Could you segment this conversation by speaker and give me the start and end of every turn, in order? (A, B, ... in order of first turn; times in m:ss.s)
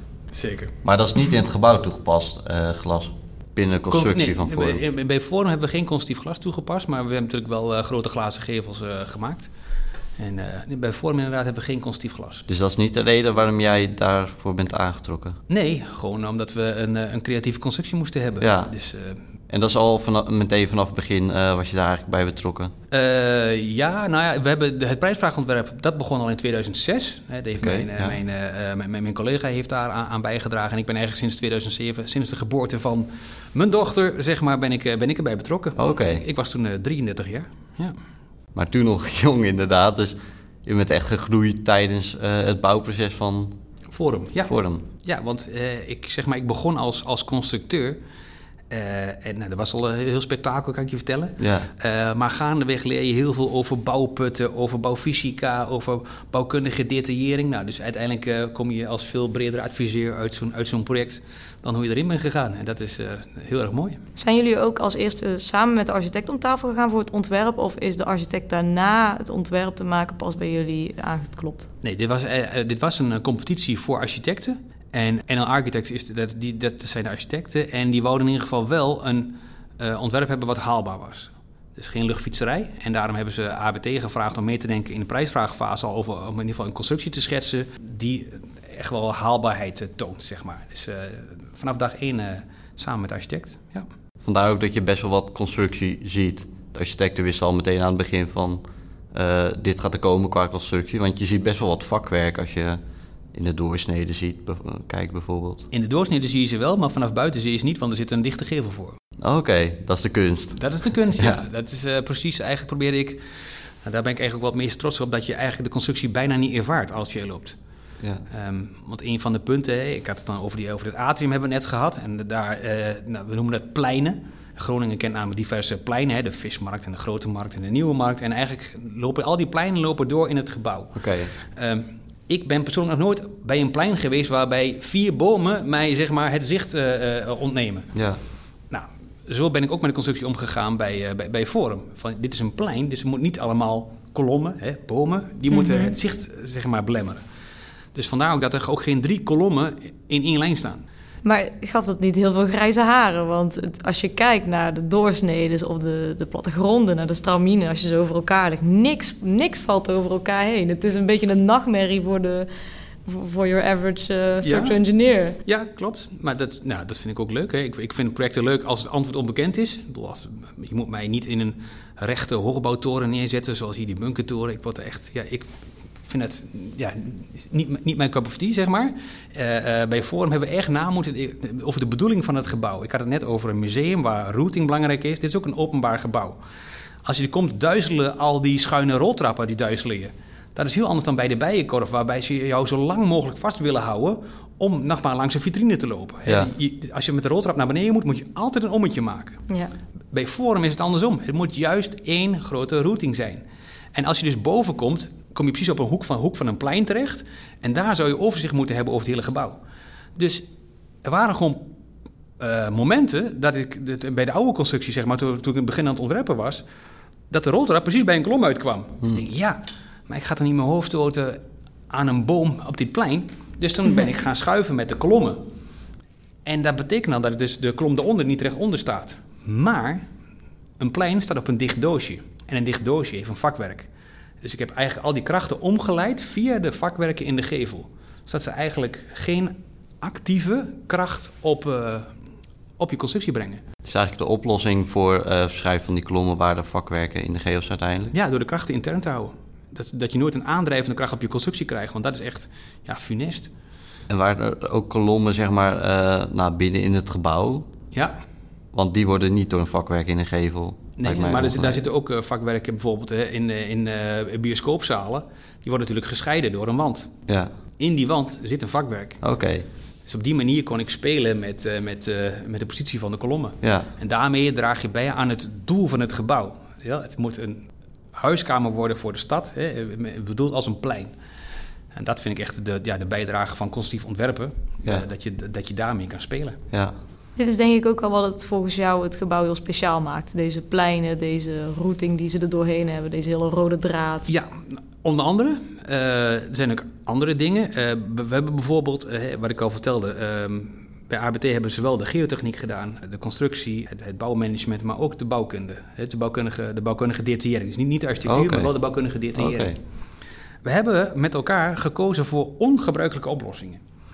0:00.3-0:00.7 A
0:00.8-0:04.8 B
0:03.9-0:09.5 A
0:10.2-0:12.4 A
0:12.5-0:15.4 B
0:15.5-0:19.2 A
0:18.4-0:18.7 B
0:19.5-0:22.7 B
0:22.9-0:38.0 A
0:27.6-0:28.2 B
0:35.8-0:36.2 B
0:38.5-0:43.6 B
0:43.9-0:48.0 A
0:44.4-0:44.8 B
0:48.7-1:04.0 A
0:51.4-0:51.7 B
1:04.2-1:11.7 C
1:11.8-1:33.9 A
1:34.2-1:38.6 B
1:39.1-1:42.8 B
1:43.3-1:45.7 B
1:45.7-1:49.0 A
1:49.2-1:50.6 B
1:50.6-1:57.6 A
1:58.3-2:17.9 A
2:11.0-2:11.3 B
2:17.9-2:18.2 B
2:18.7-2:27.2 A
2:25.5-2:25.9 C
2:27.9-2:30.8 A
2:31.2-2:42.5 C
2:43.0-2:45.4 C
2:44.4-2:44.8 A
2:45.4-2:55.5 A
2:56.0-3:06.4 A
3:07.0-3:19.4 A
3:16.2-3:16.5 B
3:20.1-3:29.6 A
3:30.2-3:30.4 A
3:31.0-3:31.7 A
3:32.4-3:36.6 A
3:37.3-3:45.4 A
3:46.4-3:50.0 A
3:50.8-3:53.9 A
3:54.4-4:02.1 A
4:02.8-4:03.6 A
4:03.8-4:08.1 B
4:08.1-4:13.5 A
4:14.1-4:17.7 B
4:17.9-4:18.2 A
4:18.7-4:21.8 B
4:21.0-4:27.1 A
4:27.8-4:29.2 A
4:29.2-4:29.6 B
4:30.1-4:41.1 A
4:33.6-4:33.9 B
4:41.9-4:46.6 A
4:47.4-4:54.3 C
4:54.3-5:09.8 A
5:08.2-5:08.7 B
5:09.4-5:09.8 B
5:10.6-5:13.8 A